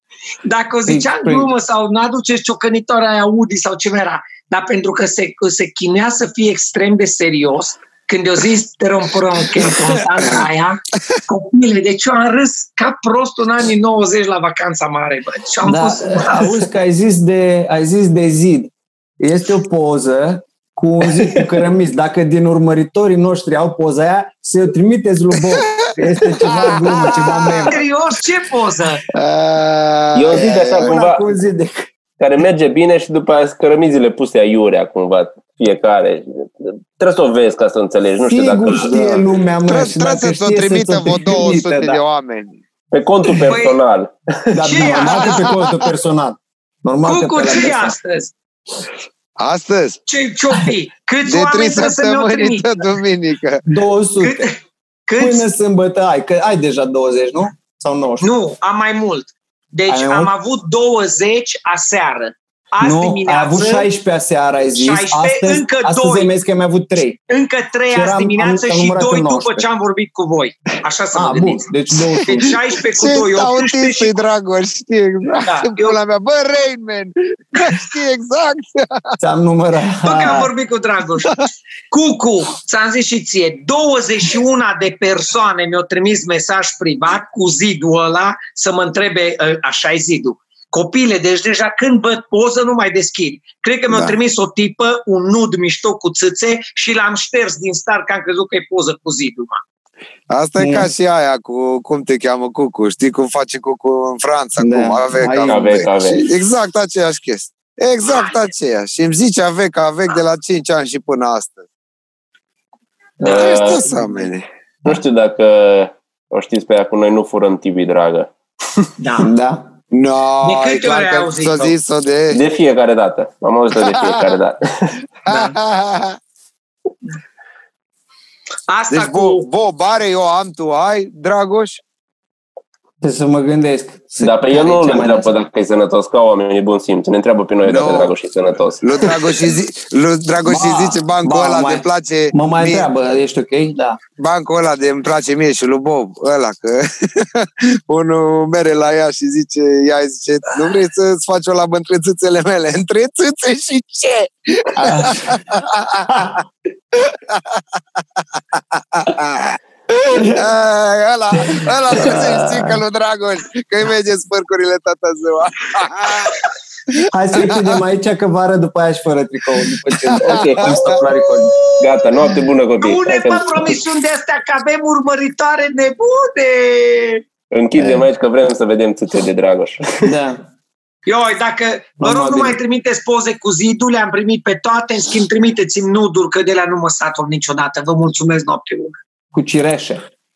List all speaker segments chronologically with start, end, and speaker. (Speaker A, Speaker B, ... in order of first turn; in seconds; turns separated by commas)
Speaker A: 0.5-16.6, Speaker B: 0.9-1.5, Speaker B: 15.7-27.8, Speaker C: 26.4-27.7, Speaker A: 27.0-29.0, Speaker C: 29.1-31.0, Speaker D: 30.1-31.2, Speaker B: 30.6-31.9, Speaker D: 32.2-39.2, Speaker B: 38.2-42.0, Speaker C: 39.7-42.6, Speaker D: 42.9-44.9, Speaker A: 43.5-43.8, Speaker B: 44.5-48.0, Speaker A: 44.6-45.5, Speaker C: 44.9-45.6, Speaker A: 47.0-48.3, Speaker C: 49.4-50.0, Speaker A: 50.1-52.7, Speaker C: 51.3-53.6, Speaker B: 53.7-54.5, Speaker A: 54.2-54.5, Speaker A: 55.1-55.5, Speaker B: 55.2-58.3, Speaker A: 58.2-63.9, Speaker B: 59.9-60.3, Speaker B: 62.8-67.2, Speaker A: 64.8-66.3, Speaker A: 67.3-71.7, Speaker B: 67.9-69.7, Speaker B: 71.1-72.6, Speaker A: 72.2-74.2, Speaker C: 72.9-79.2, Speaker A: 75.5-76.0, Speaker B: 79.2-80.5, Speaker A: 80.0-99.6, Speaker C: 93.9-94.2, Speaker C: 100.3-111.6, Speaker B: 100.6-100.9, Speaker B: 104.6-105.7, Speaker D: 105.5-106.2, Speaker C: 113.2-114.4, Speaker D: 113.2-114.0, Speaker D: 114.8-118.3, Speaker A: 119.0-119.3, Speaker B: 119.2-119.7, Speaker C: 119.9-122.4, Speaker A: 120.4-121.8, Speaker D: 122.3-125.0, Speaker C: 123.8-124.2, Speaker C: 125.2-126.2, Speaker B: 125.3-125.5, Speaker A: 128.7-129.4, Speaker C: 128.9-131.8, Speaker B: 133.0-135.3, Speaker D: 134.2-139.3, Speaker C: 137.7-138.1, Speaker C: 138.8-142.9, Speaker B: 140.5-144.0, Speaker C: 144.2-156.4, Speaker B: 154.8-155.3, Speaker C: 156.9-159.6, Speaker B: 160.1-160.4, Speaker C: 160.2-166.4, Speaker B: 161.5-162.8, Speaker B: 167.1-171.5, Speaker D: 170.2-173.8, Speaker A: 170.8-177.2, Speaker D: 177.5-180.1, Speaker B: 180.0-180.4, Speaker A: 181.1-189.0, Speaker B: 182.0-182.6, Speaker B: 189.3-190.1